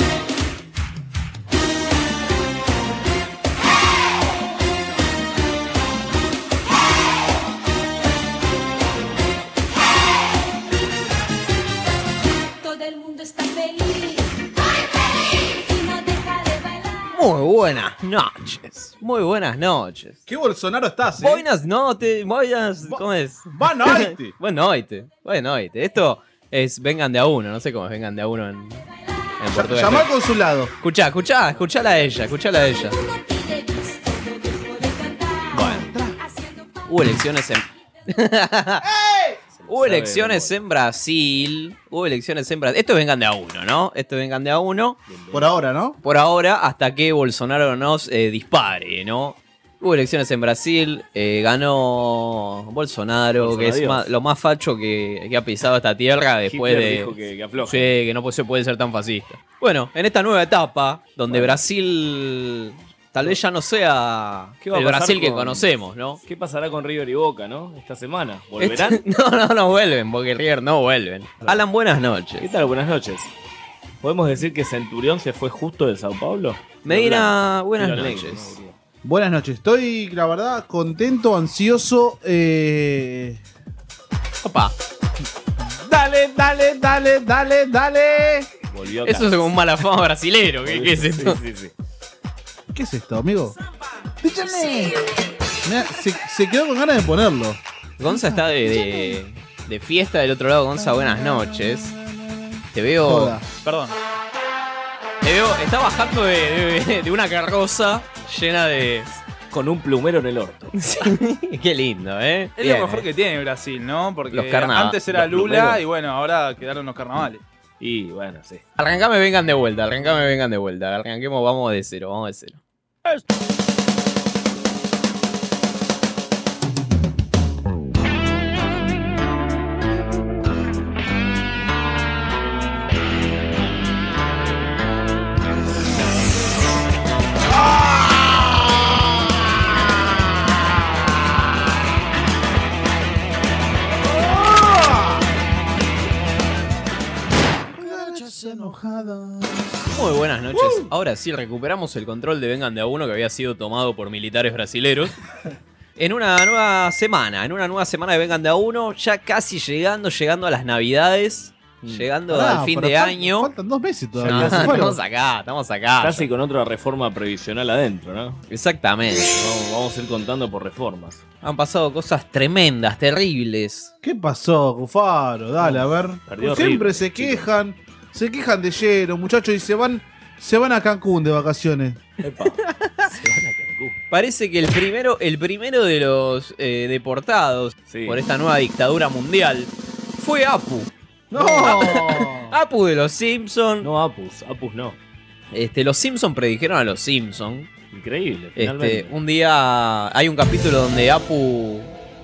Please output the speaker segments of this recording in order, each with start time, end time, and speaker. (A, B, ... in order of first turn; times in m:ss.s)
0:12.4-0:14.4 A
0:15.5-0:17.1 A
0:17.1-0:20.2 B
0:20.3-0:21.4 C
0:21.2-0:28.8 B
0:22.8-0:24.3 C
0:29.4-0:30.1 B
0:29.6-0:30.7 C
0:30.8-0:33.0 B
0:32.8-0:36.9 A
0:35.5-0:35.9 B
0:35.6-0:36.2 C
0:36.9-0:38.8 B
0:38.8-0:39.4 C
0:39.5-0:40.6 D
0:39.7-0:45.0 B
0:45.1-0:45.5 D
0:45.3-0:46.0 C
0:46.0-1:06.2 B
0:53.4-0:54.1 D
0:56.5-0:57.9 D
1:01.3-1:01.6 D
1:04.6-1:05.7 D
1:06.2-1:09.0 D
1:08.6-1:12.5 B
1:12.4-1:13.3 D
1:14.0-1:18.7 D
1:16.8-1:18.6 B
1:19.0-1:23.4 C
1:24.4-1:24.7 B
1:25.6-1:28.5 C
1:28.7-1:29.5 D
1:29.0-1:31.4 B
1:30.6-1:31.7 D
1:32.7-1:33.6 C
1:34.2-1:35.0 C
1:35.6-1:39.2 C
1:38.0-1:41.9 B
1:41.0-1:41.3 C
1:42.1-1:43.4 C
1:42.7-1:43.4 B
1:43.6-1:44.0 E
1:45.2-1:49.2 B
1:49.5-1:50.7 D
1:50.7-1:53.0 B
1:52.6-1:57.4 E
1:54.3-1:55.0 B
1:55.1-1:55.8 D
1:57.8-1:58.6 D
1:58.8-2:02.6 B
2:24.2-2:25.2 C
2:27.7-2:29.8 C
2:29.8-2:35.1 B
2:30.5-2:30.8 C
2:36.0-2:43.5 B
2:42.3-2:45.0 C
2:44.2-2:46.3 B
2:44.2-2:44.9 D
2:46.0-2:48.4 D
2:48.5-2:49.3 B
2:49.3-2:51.2 D
2:51.4-2:53.9 B
2:54.0-3:02.0 C
2:55.6-2:57.5 D
3:02.2-3:04.0 D
3:04.1-3:13.9 B
3:07.9-3:08.2 D
3:11.3-3:12.5 C
3:13.8-3:15.0 D
3:15.5-3:17.7 B
3:17.9-3:19.1 D
3:18.6-3:21.9 B